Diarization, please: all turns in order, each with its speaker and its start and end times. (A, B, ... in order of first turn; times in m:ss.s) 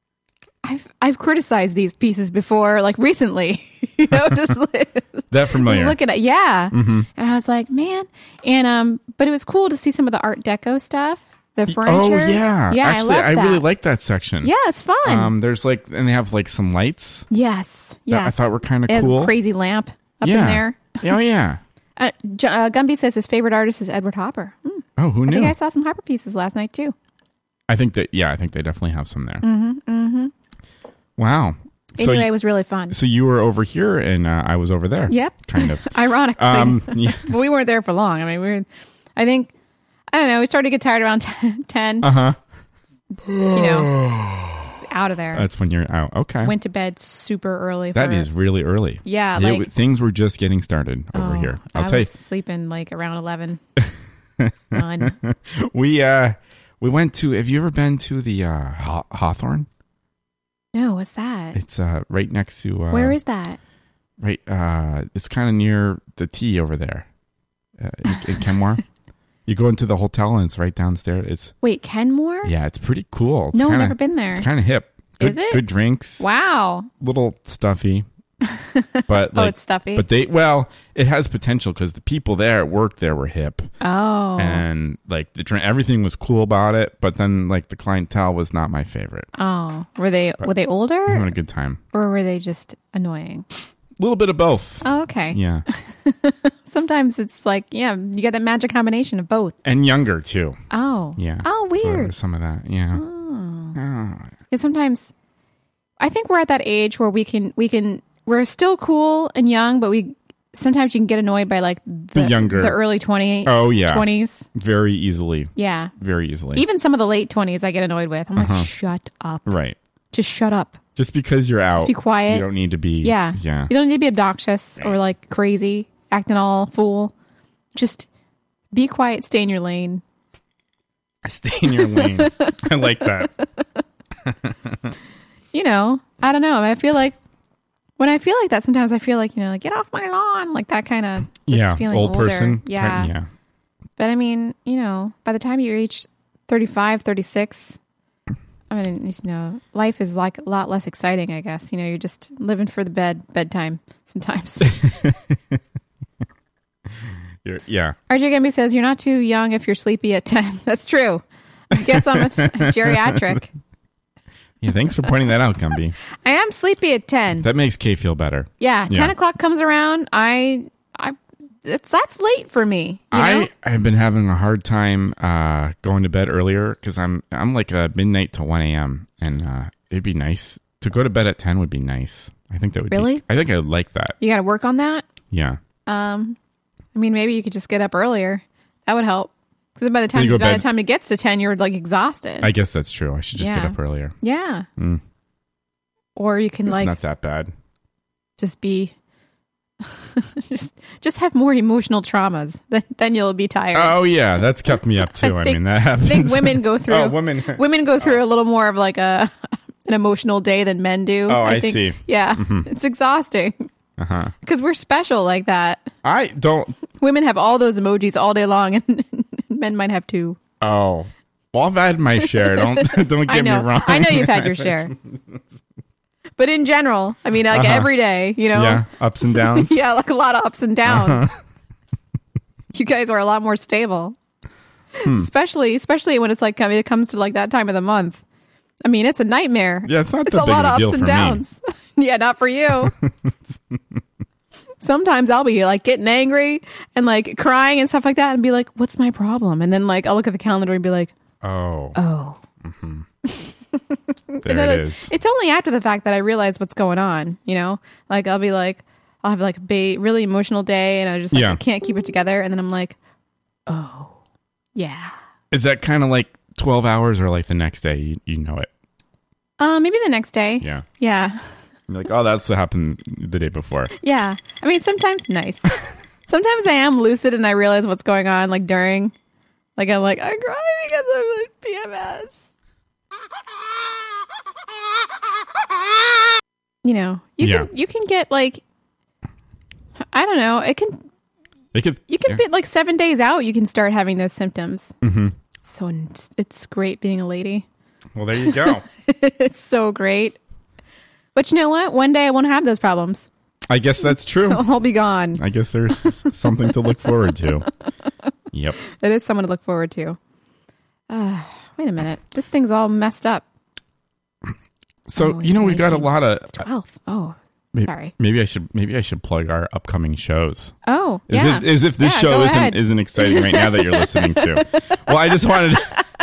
0:00.6-0:13.6 A
0:05.3-0:06.0 B
0:06.7-0:07.1 B
0:11.7-0:14.5 B
0:14.4-0:15.3 A
0:15.0-0:17.2 B
0:17.3-0:21.0 A
0:18.1-0:19.3 B
0:20.2-0:21.6 B
0:22.0-0:26.9 A
0:25.0-0:25.5 B
0:27.7-0:29.4 B
0:29.4-0:30.3 A
0:31.2-0:32.3 B
0:32.0-0:33.0 A
0:32.9-0:35.8 B
0:35.1-0:39.5 A
0:36.4-0:37.3 B
0:40.1-0:42.1 A
0:42.0-0:42.4 B
0:43.4-0:43.9 A
0:44.8-0:45.4 A
0:45.3-0:46.5 B
0:46.4-0:48.3 A
0:47.9-0:52.1 B
0:49.0-0:49.7 A
0:51.1-0:53.6 A
0:54.4-0:59.7 B
0:54.7-0:55.2 A
1:00.7-1:01.6 A
1:01.5-1:03.2 B
1:02.9-1:03.6 A
1:04.2-1:07.1 B
1:07.8-1:08.8 B
1:09.5-1:11.5 B
1:11.6-1:12.5 A
1:12.4-1:16.2 B
1:13.5-1:14.5 A
1:15.2-1:15.6 A
1:16.2-1:16.9 A
1:17.0-1:18.0 B
1:18.5-1:20.0 A
1:19.1-1:23.7 B
1:23.8-1:24.6 A
1:24.4-1:29.3 B
1:29.4-1:31.3 A
1:31.1-1:31.8 B
1:31.9-1:33.4 A
1:34.0-1:35.6 B
1:34.8-1:39.6 A
1:39.6-1:40.6 B
1:40.7-1:42.1 A
1:41.2-1:43.0 B
1:42.9-1:43.8 A
1:43.7-1:44.3 B
1:44.5-1:45.1 A
1:46.0-1:54.5 A
1:52.1-1:52.8 B
1:53.4-1:56.6 B
1:55.6-1:55.9 A
1:56.5-1:59.5 A
1:58.4-1:58.7 B
1:59.4-1:59.8 B
2:00.1-2:00.8 A
2:01.0-2:03.7 B
2:01.8-2:02.4 A
2:03.0-2:07.1 A
2:07.7-2:08.1 A
2:08.7-2:10.0 A
2:11.2-2:13.3 B
2:11.9-2:12.6 A
2:15.5-2:17.2 A
2:18.0-2:23.1 A
2:21.4-2:23.3 B
2:24.0-2:27.8 A
2:28.7-2:34.8 A
2:34.6-2:35.2 B
2:37.4-2:38.0 B
2:38.1-2:43.5 A
2:41.9-2:43.4 B
2:44.6-2:45.9 B
2:46.2-2:47.4 A
2:47.4-2:49.1 B
2:48.6-2:53.5 A
2:53.1-3:04.2 B
3:02.9-3:03.2 A
3:04.2-3:05.0 A
3:05.3-3:05.6 B
3:05.8-3:06.4 A
3:06.9-3:12.5 A
3:10.1-3:10.7 B
3:12.4-3:14.1 B
3:13.4-3:14.6 A
3:16.2-3:16.9 A
3:16.6-3:17.5 B
3:18.4-3:18.9 A
3:19.8-3:24.0 A
3:23.7-3:28.2 B
3:25.2-3:33.7 A
3:31.3-3:32.7 B
3:34.0-3:34.3 B
3:34.4-3:35.9 A
3:36.0-3:36.7 B
3:37.0-3:40.4 A
3:40.6-3:44.9 B
3:42.5-3:44.9 A
3:46.4-3:48.8 A
3:47.5-3:47.9 B
3:48.5-3:49.8 B
3:49.4-3:51.3 A
3:50.8-3:51.3 B
3:52.7-3:54.2 A
3:55.0-3:58.2 A
3:55.0-3:55.3 B
3:58.8-4:02.9 A
3:59.8-4:01.4 B
4:02.8-4:03.3 B
4:04.8-4:11.1 A
4:11.4-4:12.0 B
4:11.9-4:12.4 A
4:12.6-4:13.0 B
4:14.3-4:23.0 A
4:14.4-4:15.1 B
4:21.3-4:21.6 B
4:23.7-4:24.2 A
4:24.8-4:25.1 A
4:25.5-4:28.7 B
4:29.6-4:31.4 A
4:31.9-4:33.9 B
4:33.9-4:39.1 A
4:39.8-4:42.4 A
4:46.8-4:48.6 A
4:47.4-4:47.7 B
4:50.1-4:51.0 A
4:51.7-4:52.4 B
4:52.1-4:54.9 A
4:55.0-4:55.3 B
4:55.6-4:57.6 A
4:58.1-4:58.8 B
4:58.5-5:00.4 A
5:01.3-5:03.3 A
5:03.7-5:04.6 B
5:04.4-5:05.4 A
5:05.4-5:07.6 B
5:08.5-5:08.8 B
5:08.8-5:10.2 A
5:11.1-5:13.4 A
5:15.1-5:16.6 B
5:15.2-5:18.1 A
5:17.7-5:20.7 B
5:20.8-5:24.6 A
5:21.3-5:25.9 B